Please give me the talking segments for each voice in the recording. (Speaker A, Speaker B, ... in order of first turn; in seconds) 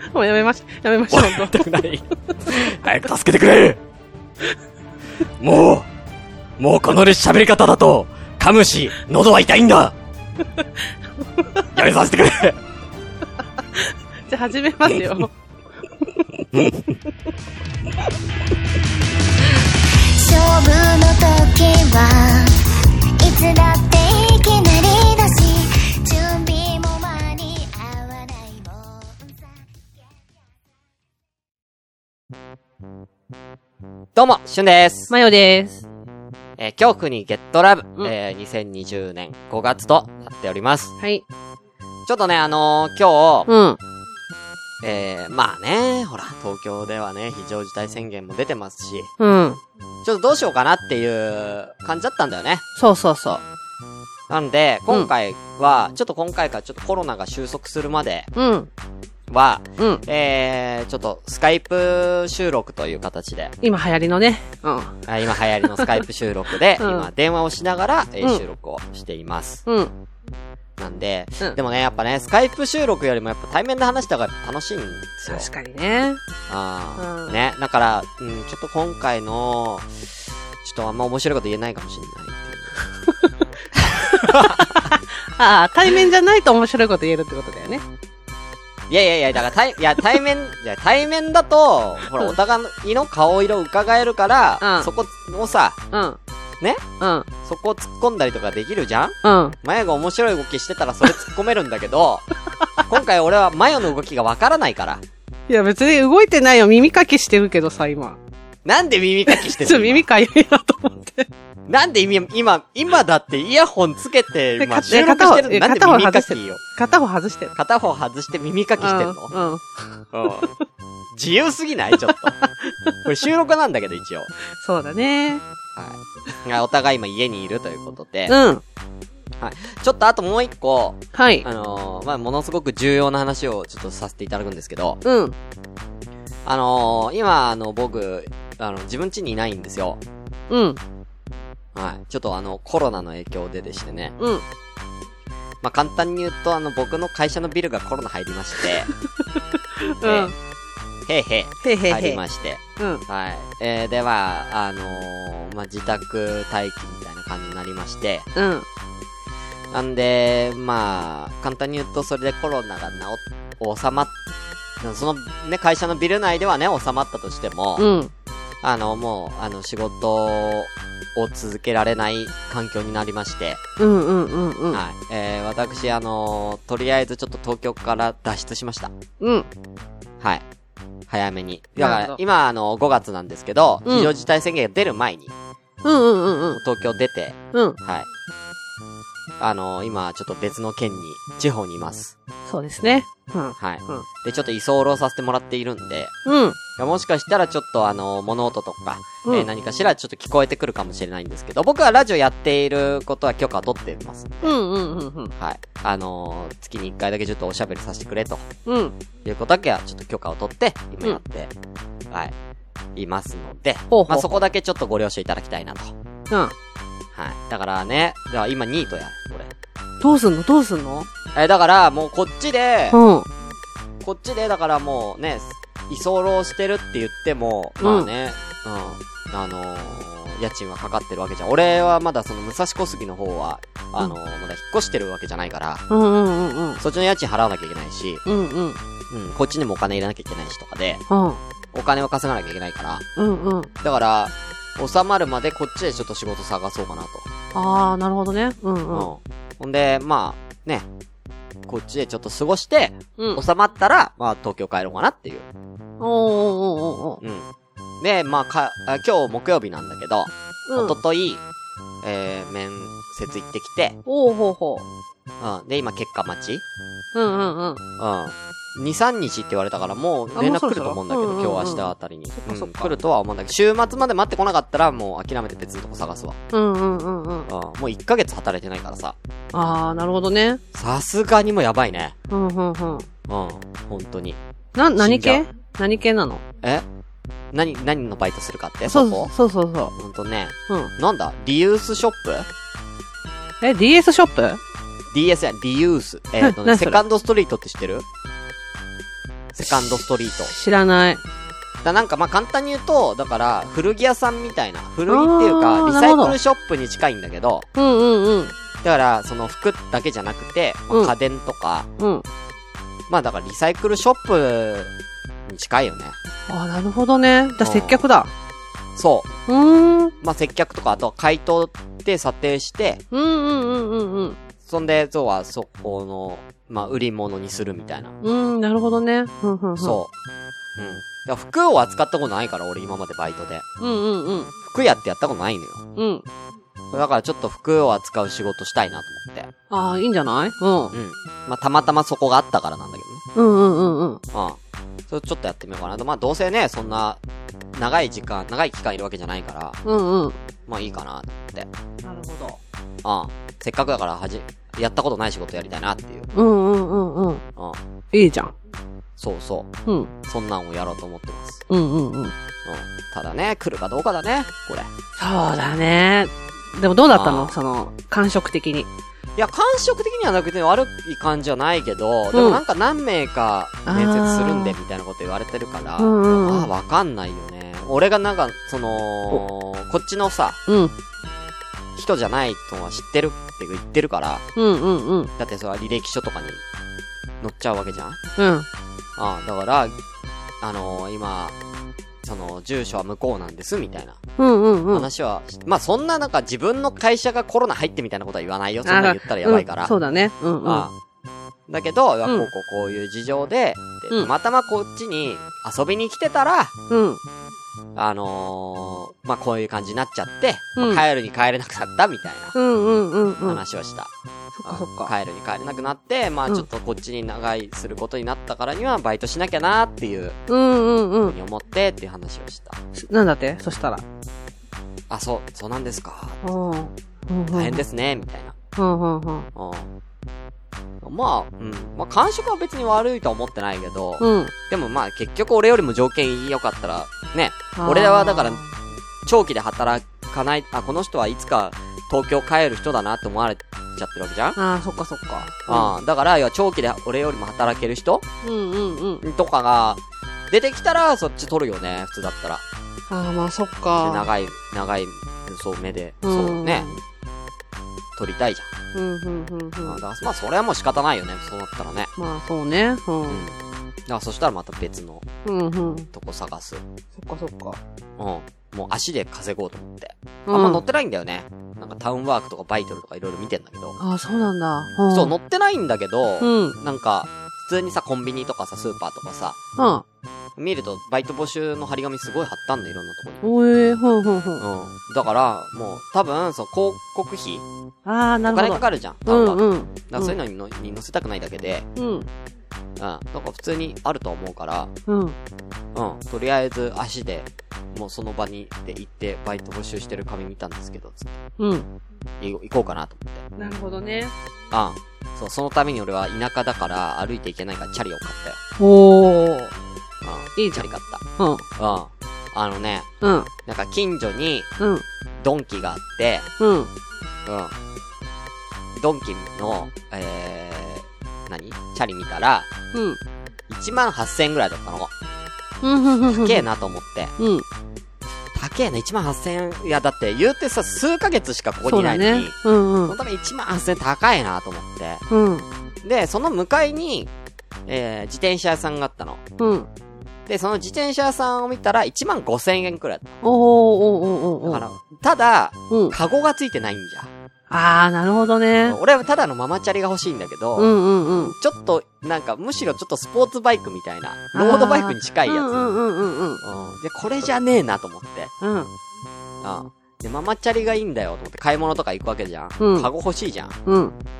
Speaker A: 0.1-1.6, 14.3-15.3, 35.1-35.8, 41.0-41.2, 43.5-43.8, 49.2-49.6, 52.8-53.4, 58.4-58.7, 63.6-65.0, 65.6-66.0, 66.8-67.1, 69.7-69.9, 75.2-76.2, 77.0-77.3, 84.1-87.8, 94.6-94.9, 95.9-96.2, 97.0-97.3, 99.2-99.5, 105.5-108.2, 109.3-111.3, 114.6-117.5, 118.8-120.5, 122.4-122.7, 124.6-125.4, 128.3-128.6, 131.1-131.4, 135.0-135.3, 140.5-140.8, 144.2-144.4, 149.8-150.3, 151.6-152.2, 158.3-158.7, 167.8-168.1, 173.8-174.8, 179.2-179.5, 181.8-182.2, 185.8-186.6, 187.5-187.8, 192.5-194.0, 196.2-196.6, 204.4-205.3, 208.7-208.9, 213.9-214.4, 220.0-221.1, 222.9-223.3, 227.8-228.1, 235.9-236.8, 238.2-238.8, 241.1-241.4, 243.2-243.7, 247.5-249.1, 256.0-257.2, 260.7-261.0, 264.1-264.9, 267.1-267.8, 270.3-272.9, 276.5-277.5, 279.5-280.6, 282.3-283.1, 284.8-286.4, 288.9-289.9, 293.6-294.6, 296.4-297.0, 299.6-301.2, 305.1-306.4, 307.8-308.5, 312.0-312.2, 316.5-318.3, 319.5-320.1, 323.1-324.4, 328.2-330.0, 333.8-334.5, 335.9-336.2, 339.7-340.9, 343.3-344.2, 349.8-350.4, 352.0-352.6, 356.3-357.4, 358.1-358.5, 361.7-362.3, 365.2-368.9, 372.3-372.6, 373.9-374.8, 376.0-376.7, 380.7-380.9, 384.6-385.3, 388.4-388.7, 394.4-395.1, 398.9-400.9, 406.9-407.2, 410.8-411.0, 412.5-413.6, 414.6-415.1, 420.5-421.4, 422.9-424.0, 426.4-427.8, 428.8-429.5, 434.2-434.5, 437.8-438.7, 444.6-445.9, 448.4-449.2, 453.1-454.2, 456.2-457.0, 458.9-460.0, 462.2-463.4, 465.4-466.1, 467.1-467.8, 470.5-470.8, 474.0-475.3, 476.4-476.8, 479.8-480.0, 483.4-484.6, 488.0-490.4, 491.9-492.3, 495.1-495.4, 501.6-501.9, 503.6-504.3, 508.8-509.7, 510.6-510.9, 511.4-511.6, 513.2-513.5, 516.6-516.9, 525.8-526.6, 527.4-527.6, 531.8-533.1, 535.3-535.6, 539.6-539.9, 543.4-544.8, 547.7-549.0, 550.8-551.5, 554.5-556.6, 558.6-558.9, 562.8-563.1, 563.9-564.1
Speaker B: 1.1-3.8, 5.4-5.9, 6.6-9.9, 11.7-12.6, 16.5-16.9
Speaker C: 19.6-22.6, 23.2-29.3
Speaker D: 34.1-35.1, 36.6-41.0, 42.1-43.5, 44.8-49.1, 50.0-52.6, 54.3-58.3, 59.3-63.5, 65.0-69.6, 70.8-75.5, 76.5-80.0, 80.6-82.8, 83.8-84.6, 88.9-95.8, 97.4-102.2, 102.8-105.0, 108.6-110.0, 111.7-116.6, 117.5-119.3, 120.1-120.5, 121.1-122.4, 123.0-124.3, 125.8-128.4, 129.4-135.0, 136.4-140.0, 141.7-144.2, 145.6-148.9, 150.0-150.3, 151.1-158.3, 159.7-164.1, 164.8-167.9, 168.6-173.6, 174.7-178.9, 181.1-185.3, 186.5-188.1, 189.4-192.1, 193.6-196.1, 196.8-204.6, 205.4-208.5, 209.2-211.5, 212.9-215.9, 217.1-219.5, 221.3-223.0, 224.0-235.8, 236.8-238.2, 239.1-241.0, 241.7-243.0, 243.8-247.3, 248.9-250.8, 251.6-255.5, 257.2-257.5, 258.0-261.4, 262.0-264.0, 265.4-266.6, 268.0-276.4, 277.5-279.1, 280.7-282.1, 283.3-284.4, 284.9-285.4, 287.5-289.3, 290.0-292.5, 295.1-298.1, 299.5-300.5, 301.8-307.7, 308.8-311.9, 313.1-314.9, 315.5-316.1, 317.6-318.0, 318.9-319.3, 320.2-323.0, 324.6-328.1, 329.8-330.1, 330.8-333.6, 334.6-335.8, 336.9-339.5, 340.9-343.2, 344.3-347.2, 347.7-349.8, 350.7-351.7, 353.0-356.3, 359.2-359.7, 360.2-361.6, 362.6-364.9, 367.1-367.6, 369.4-380.6, 381.9-384.4, 385.4-386.6, 387.4-388.2, 389.2-389.9, 390.6-391.5, 392.2-394.2, 394.9-399.9, 400.6-400.9, 401.7-406.7, 407.9-412.6, 413.4-414.1, 414.6-420.4, 421.2-422.8, 425.1-426.4, 427.5-428.6, 429.5-429.9, 431.0-438.6, 439.2-444.6, 445.7-448.2, 449.2-452.6, 454.0-456.9, 458.1-458.7, 459.8-462.1, 463.3-465.2, 466.1-466.8, 468.2-474.0, 475.1-479.6, 480.6-483.4, 484.6-487.6, 488.5-491.9, 493.0-494.9, 495.9-501.4, 502.4-503.8, 504.7-508.6, 510.2-511.2, 511.8-513.1, 513.6-514.7, 515.4-516.5, 517.5-517.7, 519.0-522.7, 523.7-525.1, 526.2-527.3, 528.5-535.2, 536.0-537.3, 537.9-539.4, 540.5-543.3, 544.6-547.3, 548.8-555.9, 556.6-558.5, 559.6-563.8